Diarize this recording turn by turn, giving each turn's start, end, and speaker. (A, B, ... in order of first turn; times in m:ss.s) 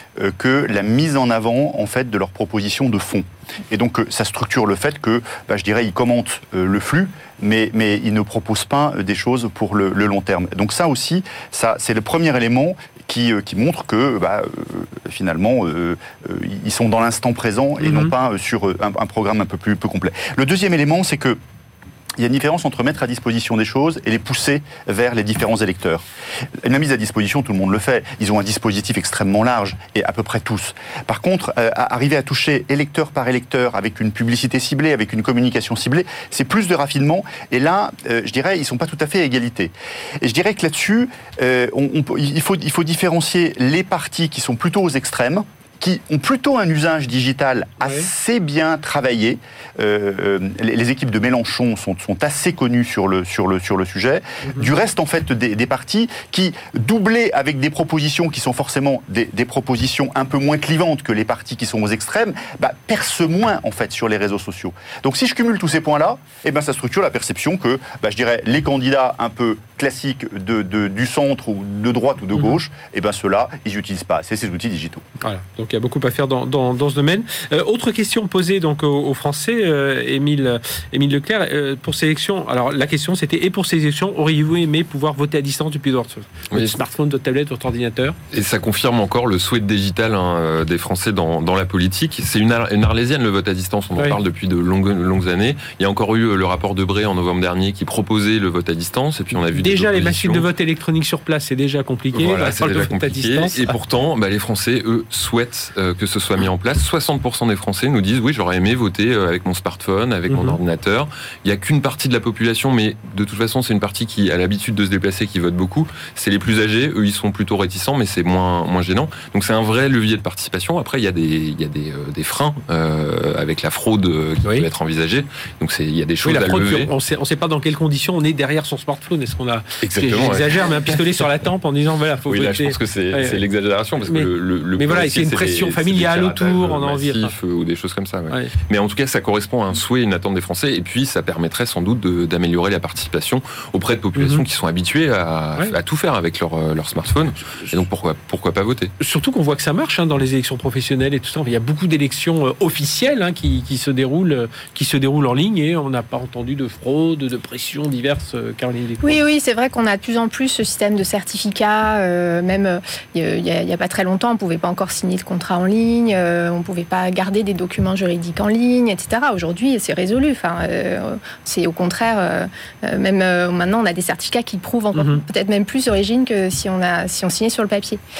0:00.2-0:21.4 A
0:17.8-0:18.1 B
0:22.2-0:26.1 A
0:26.6-1:15.0 A
0:47.8-0:48.1 B
1:15.2-1:28.2 B
1:28.3-1:40.5 C
1:39.3-1:43.8 B
1:42.1-2:06.9 C
1:50.3-1:50.6 B
2:06.2-2:13.4 B
2:09.8-2:11.0 C
2:12.3-2:28.9 C
2:14.1-2:17.3 B
2:24.1-2:24.4 B
2:29.0-2:39.2 B
2:39.0-2:58.0 D
2:54.9-2:55.2 B